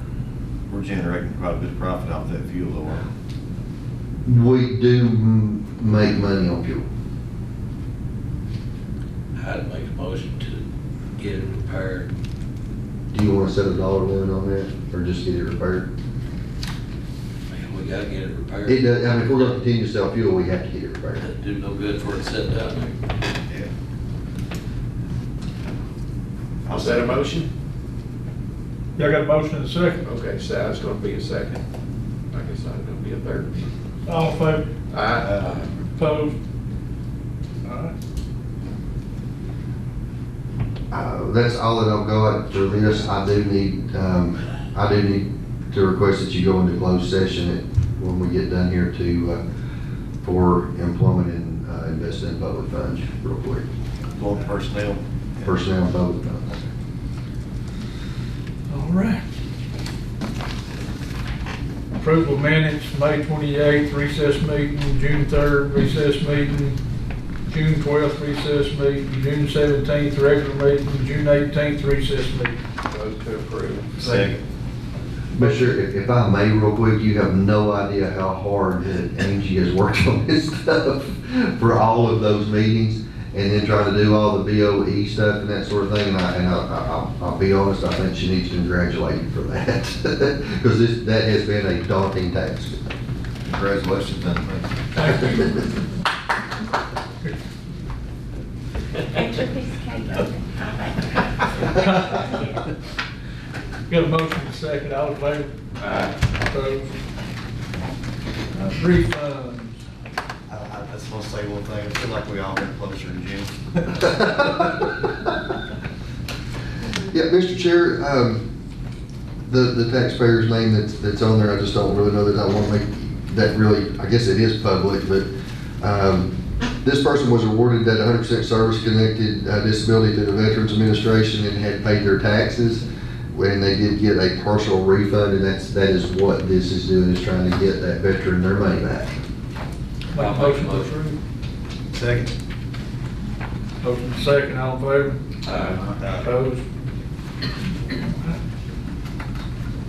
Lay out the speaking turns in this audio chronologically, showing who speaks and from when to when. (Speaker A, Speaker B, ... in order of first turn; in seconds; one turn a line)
Speaker A: 0.7-3.1
Speaker B: 4.2-6.9
Speaker C: 9.3-10.6
Speaker C: 11.2-12.1
Speaker B: 13.1-15.9
Speaker C: 17.5-19.4
Speaker B: 18.7-21.2
Speaker C: 21.2-22.9
Speaker A: 26.7-27.3
Speaker D: 26.7-27.5
Speaker E: 29.0-30.0
Speaker D: 30.0-31.6
Speaker D: 32.3-33.7
Speaker E: 34.0-34.7
Speaker D: 34.9-35.7
Speaker A: 35.2-35.6
Speaker E: 36.0-36.4
Speaker E: 37.6-37.9
Speaker B: 40.9-49.4
Speaker B: 50.2-53.7
Speaker A: 54.1-55.6
Speaker B: 55.4-56.6
Speaker E: 58.7-59.2
Speaker E: 62.0-66.8
Speaker E: 67.5-72.6
Speaker D: 72.9-74.0
Speaker A: 74.0-74.4
Speaker E: 74.0-74.3
Speaker B: 75.3-92.8
Speaker A: 93.4-95.1
Speaker E: 95.0-95.6
Speaker F: 99.1-101.1
Speaker E: 101.7-102.4
Speaker E: 103.9-105.5
Speaker E: 106.4-106.9
Speaker E: 108.5-109.8
Speaker A: 110.5-114.6
Speaker B: 117.0-118.5
Speaker B: 119.5-125.3
Speaker B: 125.8-139.1
Speaker E: 140.1-141.2
Speaker C: 140.2-141.0
Speaker A: 141.9-142.3
Speaker E: 143.8-145.2
Speaker D: 145.5-145.8
Speaker A: 145.7-146.3
Speaker E: 146.2-146.7
Speaker E: 147.9-148.4